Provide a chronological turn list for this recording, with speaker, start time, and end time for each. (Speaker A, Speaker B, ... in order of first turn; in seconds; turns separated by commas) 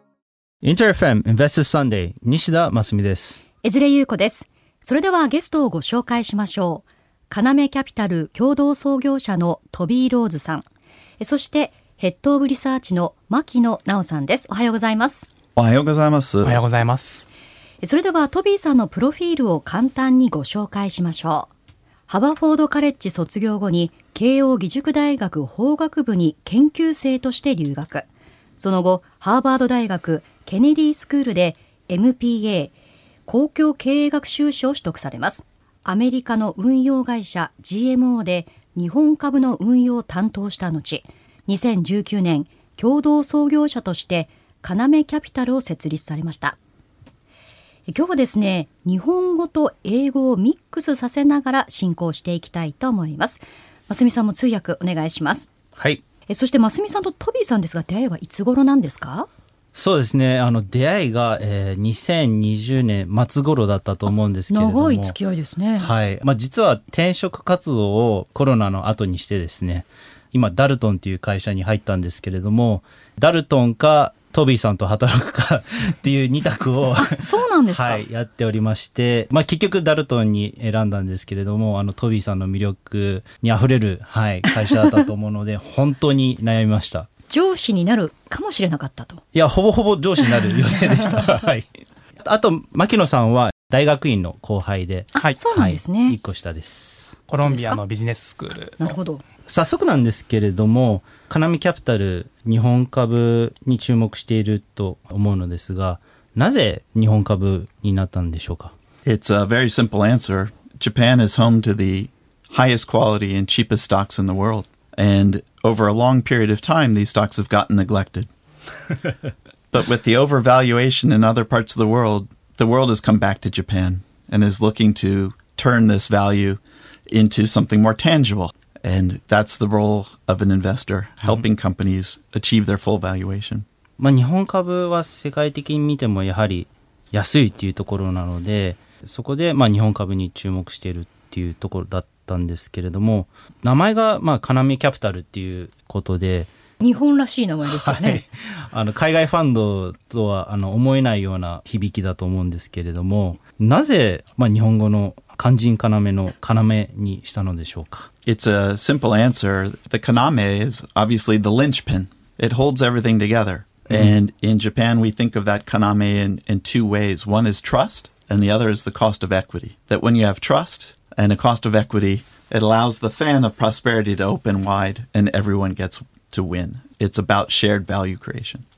Speaker A: 0.6-3.4, Speaker B: 3.6-10.6, Speaker B: 11.2-15.3, Speaker C: 15.6-16.6, Speaker D: 16.4-17.3, Speaker B: 17.8-21.5, Speaker B: 22.1-28.1, Speaker B: 28.6-32.7, Speaker B: 33.3-46.6, Speaker B: 47.9-55.5, Speaker A: 55.8-56.0, Speaker B: 56.3-59.3, Speaker A: 59.7-65.1, Speaker B: 64.5-65.9, Speaker A: 65.8-87.1, Speaker B: 77.1-78.0, Speaker B: 87.3-89.2, Speaker A: 89.3-91.7, Speaker B: 90.9-91.2, Speaker A: 92.2-97.1, Speaker B: 95.1-96.2, Speaker D: 97.3-99.0, Speaker B: 97.5-97.8, Speaker B: 98.8-99.2, Speaker A: 99.5-108.7, Speaker C: 109.0-118.3, Speaker C: 119.7-133.6, Speaker A: 134.0-146.5, Speaker B: 146.8-148.2, Speaker A: 147.7-158.1, Speaker C: 158.2-178.6